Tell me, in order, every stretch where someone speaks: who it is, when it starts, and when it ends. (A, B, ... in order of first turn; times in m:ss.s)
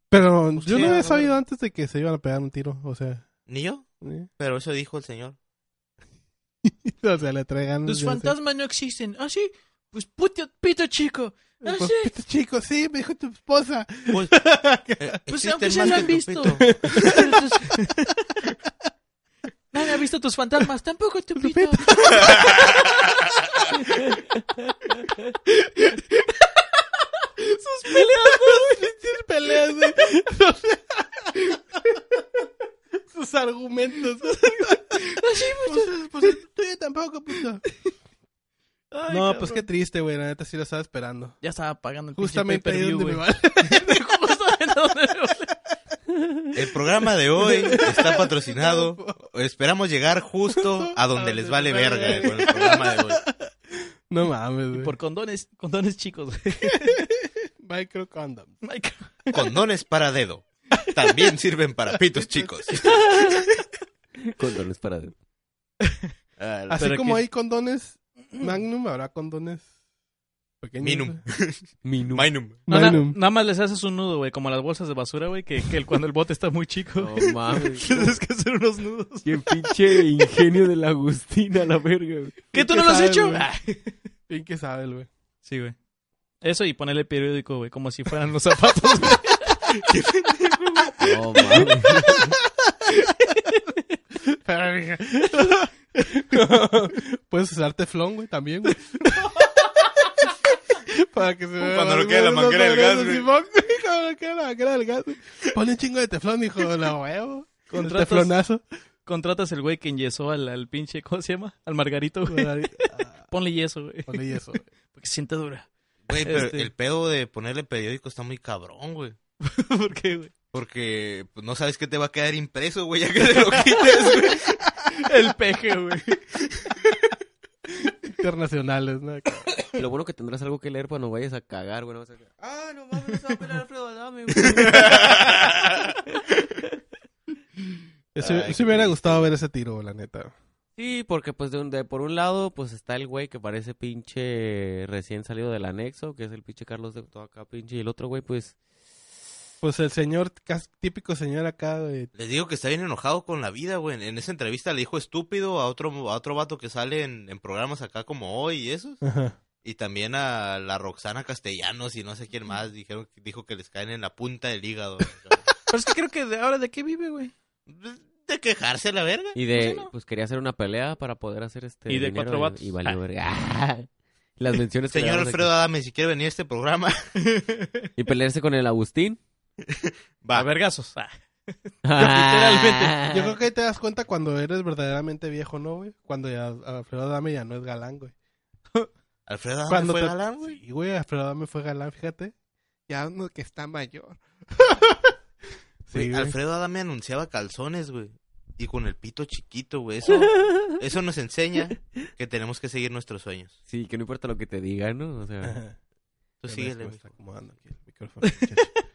0:00.1-0:03.3 A
0:00.6-0:01.0 B
0:00.8-0:01.3 C
0:03.5-0:03.9 B
0:04.0-0:04.3 A
0:04.4-0:05.4 B
0:06.6-0:08.3 A
0:07.9-0:12.1 C
0:11.6-0:15.2 A
0:14.1-0:14.4 B
0:15.0-0:16.7 B
0:15.3-0:18.2 C
0:16.6-0:17.4 A
0:19.7-0:22.6 C
0:21.4-0:22.6 A
0:23.7-0:24.2 C
0:25.7-0:26.4 C
0:27.4-0:28.9 C
0:28.3-0:32.0 A
0:33.1-0:37.6 A
0:34.3-0:36.4 C
0:38.9-0:39.6 C
0:39.1-0:41.4 A
0:41.4-0:45.5 C
0:42.2-0:44.0 A
0:46.5-0:53.2 B
0:47.4-0:49.2 A
0:50.6-0:53.2 A
0:52.0-0:52.3 C
0:54.1-0:54.9 A
0:54.7-0:57.1 C
0:56.7-0:58.6 A
0:58.6-0:59.4 C
0:59.3-1:03.2 B
1:02.7-1:03.7 C
1:04.3-1:05.2 D
1:06.4-1:06.9 B
1:06.7-1:09.7 A
1:06.8-1:07.2 C
1:10.6-1:11.2 A
1:10.8-1:12.6 B
1:11.8-1:12.3 D
1:12.7-1:13.2 A
1:12.7-1:20.0 C
1:17.0-1:18.1 D
1:19.2-1:22.4 D
1:22.5-1:23.9 C
1:22.5-1:23.5 A
1:24.3-1:25.1 A
1:25.4-1:25.8 C
1:26.4-1:29.6 C
1:31.0-1:32.4 D
1:33.0-1:33.8 C
1:34.3-1:39.4 A
1:40.8-1:48.6 A
1:41.6-1:43.2 B
1:47.7-1:48.3 C
1:49.1-1:54.4 C
1:52.3-1:53.3 A
1:54.1-1:54.6 A
1:54.9-1:56.7 C
1:56.1-1:59.2 B
1:59.4-2:00.3 C
2:00.5-2:04.9 B
2:03.2-2:06.9 C
2:07.9-2:09.5 A
2:09.8-2:15.2 D
2:14.5-2:15.7 B
2:18.2-2:20.3 A
2:18.2-2:19.3 B
2:20.8-2:28.6 D
2:29.6-2:32.1 A
2:32.2-2:39.0 B
2:39.0-2:39.4 A
2:39.6-2:45.4 B
2:45.7-2:47.3 C
2:47.7-2:49.4 B
2:49.4-2:55.5 D
2:49.5-2:49.9 C
2:51.9-2:53.0 C
2:54.9-2:57.0 B
2:57.3-2:57.8 C
2:58.0-2:59.2 D
2:59.8-3:00.5 B
3:00.4-3:03.0 C
3:01.8-3:03.3 D
3:03.1-3:08.1 A
3:09.3-3:10.6 B
3:09.7-3:12.3 A
3:12.9-3:15.1 A
3:15.9-3:16.4 A
3:15.9-3:23.6 B
3:23.7-3:25.6 D
3:25.4-3:25.8 A
3:26.4-3:27.0 B
3:26.5-3:28.7 A
3:28.2-3:28.7 C